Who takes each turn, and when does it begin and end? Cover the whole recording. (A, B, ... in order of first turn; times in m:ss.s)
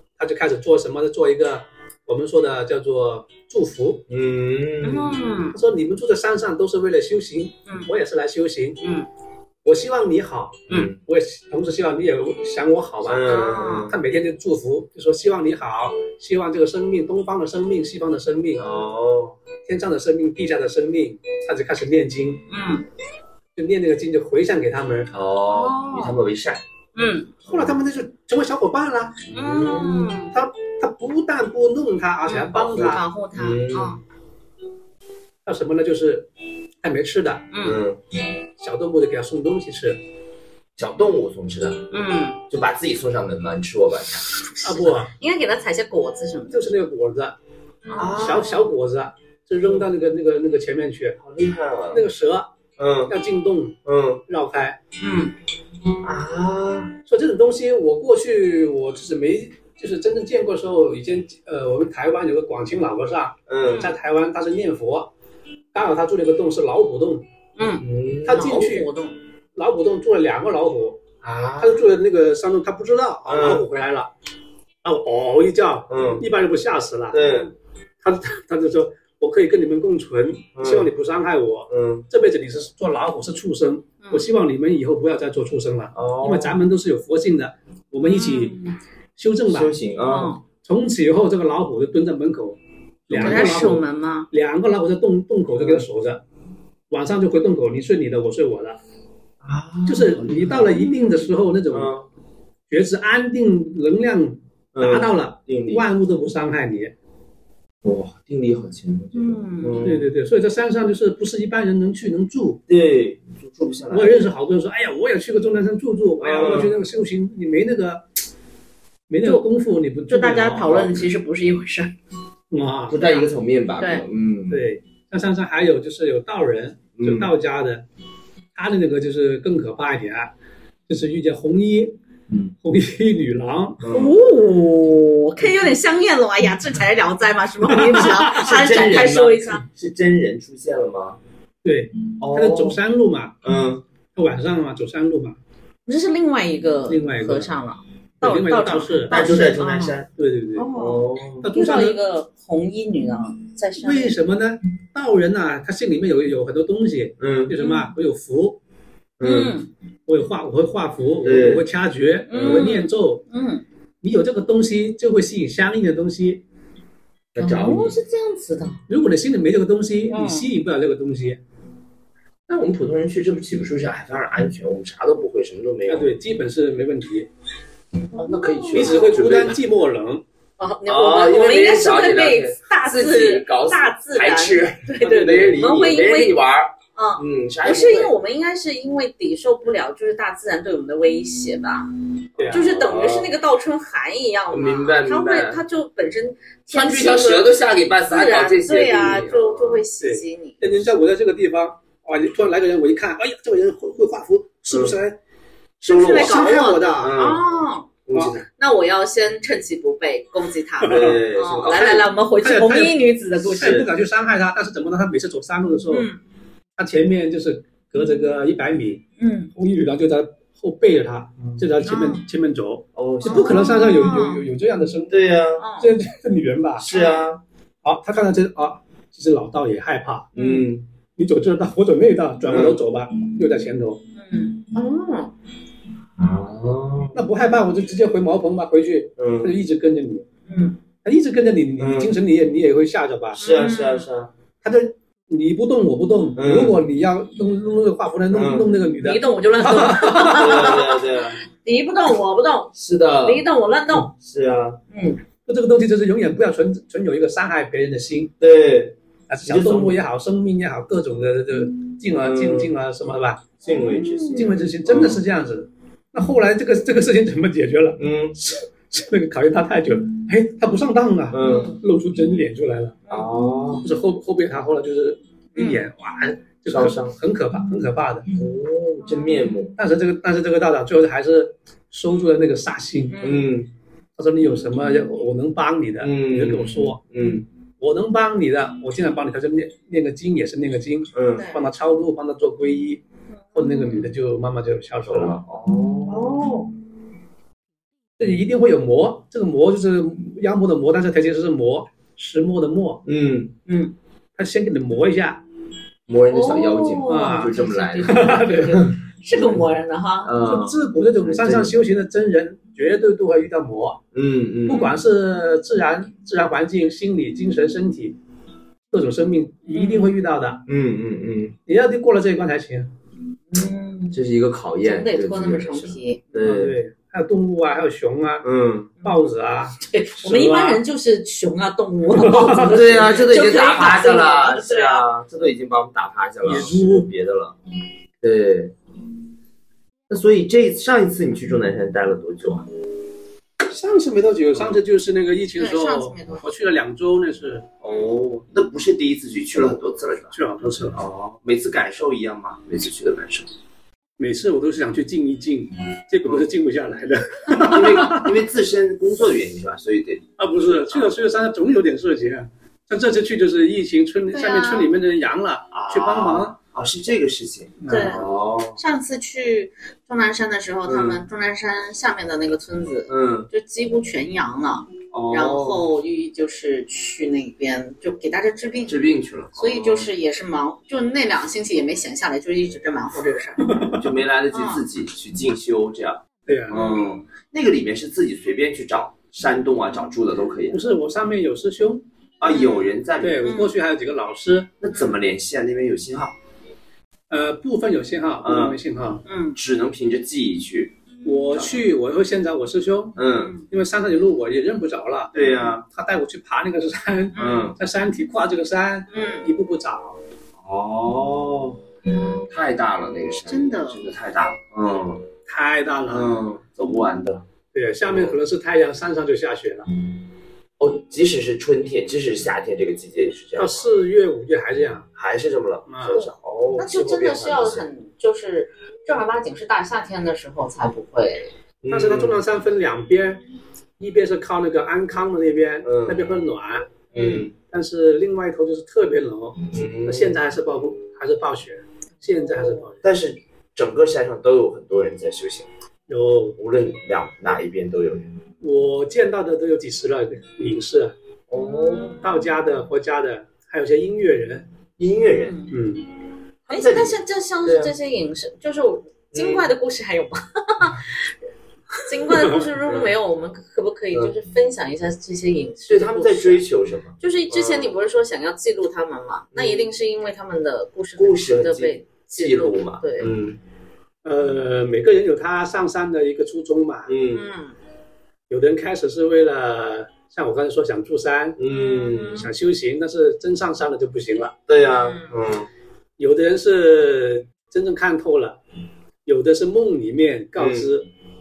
0:00.2-0:04.0 A
0:04.1-0:05.2 B
0:04.8-0:05.6 C
0:05.5-0:08.8 A
0:08.8-0:09.1 C
0:09.6-0:18.7 A
0:10.7-0:11.0 B
0:13.0-0:13.9 B
0:13.2-0:13.9 C
0:18.6-0:19.4 B
0:19.6-0:22.4 A
0:22.5-0:22.8 C
0:23.6-0:25.1 A
0:25.1-0:26.6 B
0:25.5-0:26.2 C
0:26.9-0:27.3 C
0:27.5-0:29.2 A
0:29.3-0:30.3 C
0:29.3-0:30.2 B
0:30.3-0:33.0 A
0:32.2-0:34.0 C
0:32.5-0:34.0 B
0:35.4-0:36.3 A
0:36.8-0:37.5 A
0:37.5-0:37.8 C
0:37.6-0:38.0 B
0:38.6-0:40.0 A
0:40.8-0:41.9 B
0:41.9-0:42.4 C
0:42.5-0:44.3 B
0:44.5-0:46.6 C
0:44.6-0:45.1 A
0:46.5-0:47.3 A
0:47.9-0:48.6 C
0:48.0-0:48.5 B
0:48.1-0:51.2 A
0:51.2-0:52.1 B
0:51.9-0:52.5 A
0:52.8-0:53.1 B
0:53.1-0:54.8 A
0:53.8-0:54.2 B
0:55.0-0:55.3 C
0:56.0-0:56.9 B
0:57.1-1:05.1 A
1:03.5-1:03.9 B
1:03.6-1:03.9 C
1:05.7-1:07.2 A
1:07.6-1:09.2 C
1:07.8-1:08.7 B
1:08.2-1:08.9 A
1:09.6-1:11.0 A
1:11.2-1:11.8 B
1:11.6-1:14.1 A
1:13.3-1:13.6 B
1:14.8-1:17.2 A
1:15.9-1:16.2 B
1:17.1-1:17.5 B
1:17.2-1:17.5 C
1:18.0-1:28.6 A
1:20.6-1:20.9 B
1:21.7-1:22.0 B
1:25.9-1:26.6 B
1:28.0-1:28.8 C
1:29.2-1:29.7 A
1:29.5-1:30.3 B
1:30.1-1:30.4 C
1:30.6-1:32.6 A
1:33.1-1:33.8 B
1:33.1-1:36.2 A
1:33.2-1:34.3 C
1:35.5-1:35.8 B
1:36.9-1:38.8 A
1:39.4-1:40.8 B
1:39.9-1:41.9 A
1:40.7-1:41.3 C
1:41.7-1:42.1 B
1:42.7-1:46.9 A
1:44.7-1:45.8 B
1:47.8-1:50.1 B
1:49.1-1:49.8 C
1:49.8-1:52.6 A
1:52.7-1:54.3 B
1:53.9-1:58.0 A
1:56.2-1:56.8 B
1:59.1-2:00.7 A
2:00.1-2:01.9 C
2:00.7-2:01.1 B
2:02.5-2:03.0 A
2:02.9-2:04.6 B
2:03.0-2:04.0 C
2:04.5-2:07.8 A
2:07.0-2:07.3 B
2:08.5-2:10.3 A
2:10.9-2:12.0 A
2:12.6-2:13.8 A
2:13.8-2:14.2 B
2:13.9-2:19.6 C
2:17.7-2:18.6 A
2:18.2-2:21.2 B
2:21.6-2:23.4 A
2:22.2-2:22.8 B
2:23.4-2:23.8 B
2:24.1-2:25.4 A
2:25.8-2:30.0 C
2:26.9-2:27.5 A
2:28.2-2:29.5 A
2:29.1-2:30.1 B
2:30.1-2:30.7 A
2:30.6-2:34.1 C
2:30.7-2:31.4 B
2:31.4-2:32.0 A
2:33.8-2:38.6 A
2:37.2-2:37.5 B
2:37.6-2:37.9 C
2:39.2-2:39.6 B
2:39.2-2:39.7 C
2:40.1-2:43.2 A
2:41.2-2:41.6 B
2:42.3-2:43.6 C
2:42.3-2:42.7 B
2:44.0-2:46.4 A
2:47.3-2:48.0 B
2:47.4-2:48.8 C
2:48.9-2:51.4 A
2:50.1-2:50.4 C
2:52.5-2:56.2 B
2:55.9-2:57.3 A
2:58.1-2:59.1 C
2:58.1-2:59.6 B
2:58.7-3:00.2 A
3:00.6-3:06.4 C
3:00.9-3:08.1 B
3:06.9-3:11.9 C
3:12.4-3:13.4 B
3:12.4-3:12.6 A
3:12.5-3:17.5 C
3:14.5-3:15.6 B
3:16.7-3:19.8 B
3:18.1-3:20.7 C
3:20.0-3:25.2 A
3:24.7-3:25.0 B
3:25.8-3:27.4 B
3:25.8-3:27.9 C
3:26.0-3:27.1 A
3:28.1-3:28.4 B
3:28.6-3:33.8 C
3:30.8-3:36.1 A
3:30.8-3:32.1 B
3:33.4-3:33.9 B
3:35.9-3:36.2 C
3:36.8-3:39.0 A
3:39.2-3:39.5 C
3:39.6-3:45.2 A
3:41.8-3:42.2 C
3:42.9-3:43.7 B
3:43.2-3:44.4 C
3:45.1-3:45.6 B
3:45.6-3:45.9 C
3:45.8-3:46.9 A
3:46.8-3:47.4 B
3:46.9-3:47.3 C
3:47.8-3:54.0 A
3:50.3-3:50.8 B
3:52.5-3:52.8 B
3:54.2-3:55.3 C
3:56.2-3:57.2 B
3:57.1-4:00.2 A
3:59.2-3:59.5 B
4:00.5-4:00.8 C
4:01.0-4:03.4 A
4:01.8-4:02.1 B
4:03.4-4:04.3 B
4:03.4-4:04.1 C
4:04.6-4:10.8 A
4:06.3-4:06.8 B
4:08.3-4:08.7 B
4:09.0-4:11.0 C
4:10.3-4:11.4 B
4:11.6-4:14.1 C
4:12.7-4:14.8 B
4:14.9-4:15.2 C
4:15.4-4:18.3 A
4:18.4-4:20.0 B
4:19.3-4:23.5 A
4:22.2-4:22.7 B
4:23.6-4:25.2 B
4:23.6-4:24.7 C
4:24.3-4:33.0 A
4:28.0-4:28.3 B
4:31.3-4:31.7 B
4:31.4-4:31.8 C
4:33.1-4:33.8 C
4:33.1-4:33.8 B
4:33.8-4:38.3 A
4:35.6-4:35.8 C
4:36.7-4:37.2 B
4:38.3-4:39.7 B
4:39.0-4:39.5 C
4:39.8-4:43.2 A
4:43.1-4:43.5 C
4:43.2-4:43.7 B
4:44.2-4:47.0 A
4:46.0-4:47.4 B
4:47.8-4:53.0 A
4:51.1-4:51.4 B
4:51.3-4:51.6 C
4:53.5-4:54.1 C
4:53.5-4:55.4 A
4:55.1-4:56.4 B
4:56.0-4:56.7 C
4:58.2-5:03.0 A
5:03.0-5:03.5 B
5:03.7-5:03.9 C
5:04.4-5:05.4 A
5:06.1-5:09.0 B
5:06.3-5:10.3 C
5:07.1-5:07.5 A
5:08.0-5:08.9 A
5:10.2-5:11.8 B
5:10.4-5:14.0 A
5:14.1-5:14.9 B
5:14.7-5:18.2 A
5:14.7-5:15.0 C
5:18.9-5:20.6 A
5:19.7-5:20.1 C
5:20.7-5:21.6 B
5:21.6-5:22.9 A
5:23.5-5:24.2 C
5:24.1-5:26.8 B
5:24.8-5:26.2 C
5:26.3-5:28.5 A
5:28.4-5:28.9 B
5:29.0-5:30.8 A
5:29.8-5:35.1 C
5:32.1-5:32.9 A
5:32.6-5:37.6 B
5:36.4-5:37.1 A
5:38.2-5:38.7 B
5:40.1-5:42.7 B
5:43.6-5:47.7 A
5:44.5-5:44.8 B
5:45.6-5:46.4 C
5:47.8-5:53.5 B
5:50.3-5:51.0 A
5:54.2-5:58.3 A
5:57.6-6:01.1 B
6:00.4-6:06.6 A
6:04.3-6:04.9 C
6:05.7-6:08.8 B
6:07.8-6:08.2 A
6:07.9-6:19.0 C
6:10.8-6:11.2 B
6:13.1-6:13.5 B
6:15.1-6:15.8 B
6:18.9-6:20.1 B
6:19.5-6:23.9 C
6:23.6-6:24.0 A
6:23.9-6:30.8 B
6:24.5-6:24.8 C
6:26.5-6:26.8 A
6:26.7-6:27.1 C
6:30.7-6:32.0 A
6:32.4-6:33.5 B
6:32.4-6:33.7 C
6:33.2-6:34.7 A
6:34.8-6:36.3 B
6:37.3-6:39.2 A
6:38.4-6:38.8 B
6:39.2-6:39.6 C
6:39.5-6:40.9 B
6:41.2-6:45.3 A
6:41.5-6:41.8 B
6:43.2-6:43.5 B
6:45.3-6:45.8 B
6:45.9-6:50.2 A
6:47.3-6:47.7 C
6:47.4-6:47.8 B
6:49.1-6:49.5 C
6:50.6-6:51.8 B
6:52.1-6:52.5 C
6:52.3-6:55.2 B
6:53.5-6:54.0 C
6:55.5-6:56.4 A
6:56.1-6:57.4 B
6:57.7-6:59.9 A
6:58.0-6:58.4 B
7:00.8-7:03.9 B
7:03.6-7:05.1 A
7:05.2-7:07.8 B
7:05.9-7:06.2 A
7:06.1-7:11.5 C
7:11.8-7:12.4 B
7:11.9-7:13.4 A
7:14.0-7:16.9 A
7:15.8-7:16.4 B
7:17.1-7:17.5 B
7:17.1-7:17.5 C
7:17.6-7:23.0 A
7:19.7-7:20.4 B
7:23.0-7:25.7 B
7:26.1-7:26.6 A
7:26.6-7:28.4 B
7:28.6-7:31.1 A
7:31.5-7:32.2 B
7:31.6-7:32.4 C
7:32.2-7:34.6 A
7:35.0-7:35.6 B
7:35.3-7:35.7 C
7:35.7-7:36.0 A
7:36.7-7:37.9 B
7:36.7-7:41.1 C
7:39.3-7:39.7 B
7:42.0-7:46.6 C
7:42.8-7:43.1 B
7:45.9-7:48.0 B
7:47.2-7:53.3 C
7:49.5-7:49.9 B
7:51.2-7:53.6 B
7:54.2-7:57.1 A
7:57.1-7:57.4 B
7:57.3-7:57.8 C
7:58.5-8:01.6 A
8:01.6-8:02.4 B
8:01.7-8:02.5 C
8:02.3-8:04.5 A
8:04.7-8:05.7 B
8:04.8-8:05.4 C
8:06.2-8:08.6 A
8:09.2-8:11.1 A
8:10.6-8:10.9 B